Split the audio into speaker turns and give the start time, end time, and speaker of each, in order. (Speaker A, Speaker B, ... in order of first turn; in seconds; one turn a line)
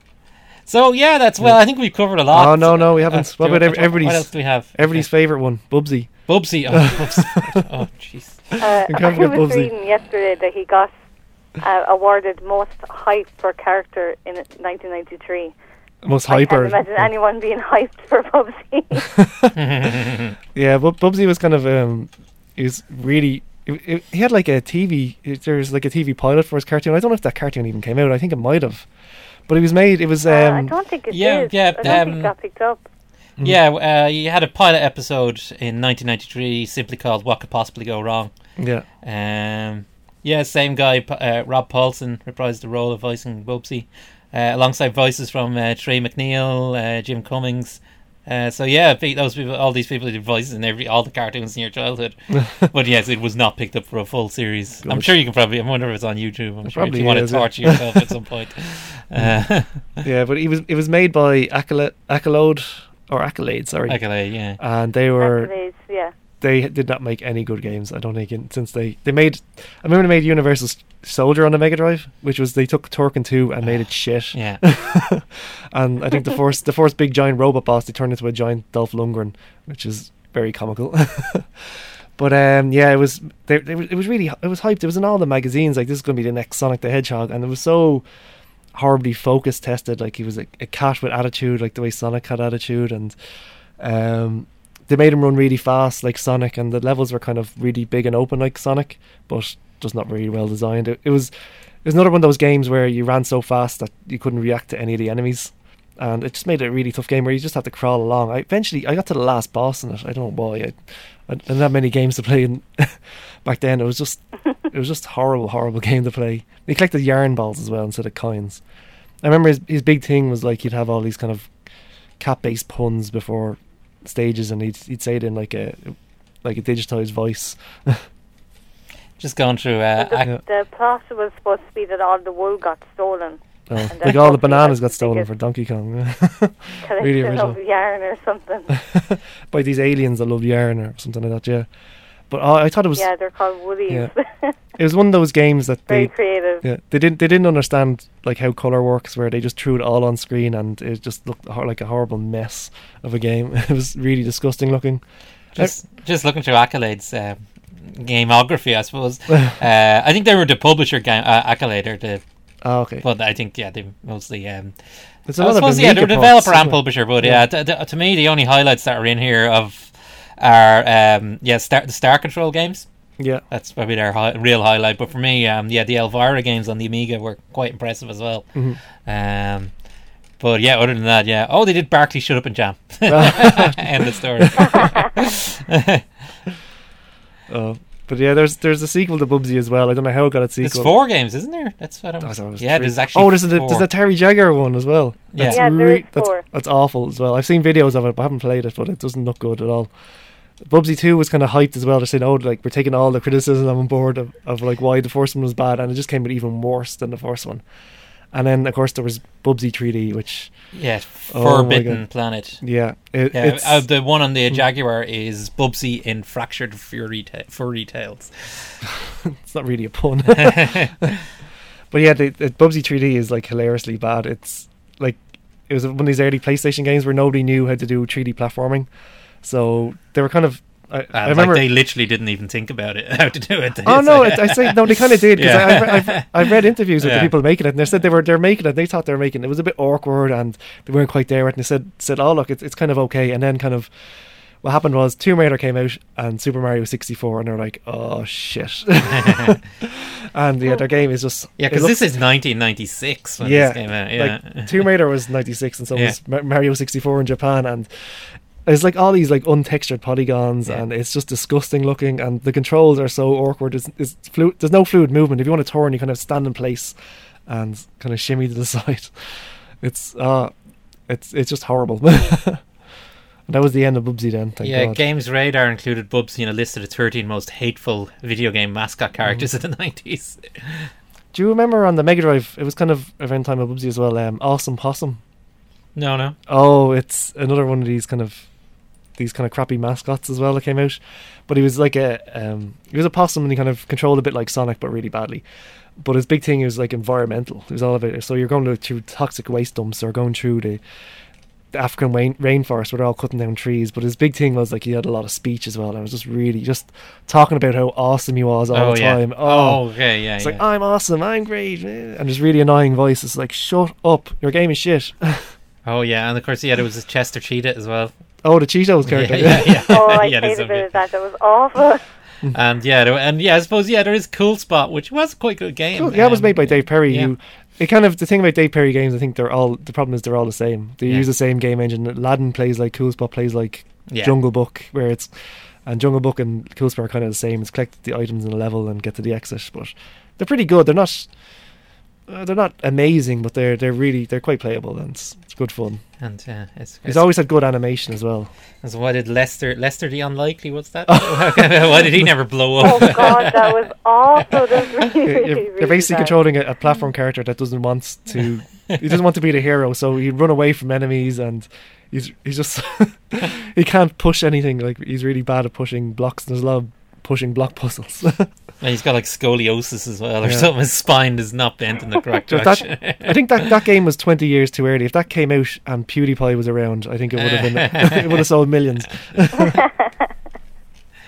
Speaker A: 0.6-5.2
Speaker B: 1.4-7.6
Speaker A: 6.3-8.6
Speaker C: 8.6-10.9
Speaker B: 8.9-9.7
Speaker C: 11.5-15.6
Speaker B: 16.0-17.1
Speaker C: 16.3-19.2
Speaker B: 19.2-19.9
Speaker A: 19.6-20.3
Speaker B: 20.5-30.8
Speaker C: 30.2-32.8
Speaker A: 31.1-32.3
Speaker A: 33.4-60.0
Speaker B: 38.6-38.9
Speaker B: 54.8-55.1
Speaker B: 56.6-58.1
Speaker B: 59.1-65.5
Speaker A: 63.9-64.6
Speaker C: 65.2-66.1
Speaker B: 66.4-88.1
Speaker A: 73.6-74.6
Speaker B: 88.7-93.2
Speaker B: 93.8-101.3
Speaker B: 101.8-118.6
Speaker B: 119.2-121.5
Speaker B: 122.2-128.1
Speaker A: 129.2-130.3
Speaker C: 130.0-135.2
Speaker B: 133.7-137.6
Speaker C: 136.8-138.8
Speaker B: 138.9-141.7
Speaker B: 142.3-143.1
Speaker C: 143.0-144.6
Speaker B: 144.8-155.8
Speaker C: 145.9-146.6
Speaker A: 155.6-162.2
Speaker B: 162.6-163.1
Speaker A: 163.0-179.8
Speaker B: 165.3-167.4
Speaker B: 173.2-173.4
Speaker B: 178.5-178.8
Speaker A: 180.4-186.0
Speaker B: 183.1-183.9
Speaker B: 184.6-184.9
Speaker B: 187.5-191.0
Speaker A: 190.6-193.9
Speaker B: 192.2-200.0
Speaker A: 195.3-195.6
Speaker C: 195.5-196.4
Speaker B: 200.6-207.7
Speaker B: 208.3-214.6
Speaker A: 210.7-212.7
Speaker A: 213.3-218.9
Speaker B: 219.2-221.1
Speaker A: 220.4-221.1
Speaker B: 221.9-231.7
Speaker A: 231.1-237.3
Speaker B: 233.8-252.1
Speaker A: 249.2-249.5
Speaker A: 251.6-255.0
Speaker B: 253.4-270.5
Speaker B: 271.1-272.9
Speaker B: 273.5-275.0
Speaker A: 274.6-280.9
Speaker B: 281.3-285.2
Speaker A: 285.9-286.4
Speaker B: 286.5-288.5
Speaker B: 289.2-295.4
Speaker B: 296.0-300.8
Speaker B: 301.7-315.6
Speaker A: 308.7-310.6
Speaker A: 315.8-318.1
Speaker B: 318.4-320.1
Speaker A: 319.1-320.9
Speaker C: 319.9-322.2
Speaker A: 322.5-327.3
Speaker B: 326.0-341.7
Speaker A: 334.1-334.4
Speaker B: 342.3-346.2
Speaker A: 346.2-347.3
Speaker B: 347.1-348.5
Speaker A: 348.8-353.7
Speaker B: 351.1-352.4
Speaker C: 352.8-356.4
Speaker B: 355.2-368.5
Speaker A: 368.8-373.7
Speaker B: 370.4-370.7
Speaker B: 372.5-379.8
Speaker A: 377.3-378.5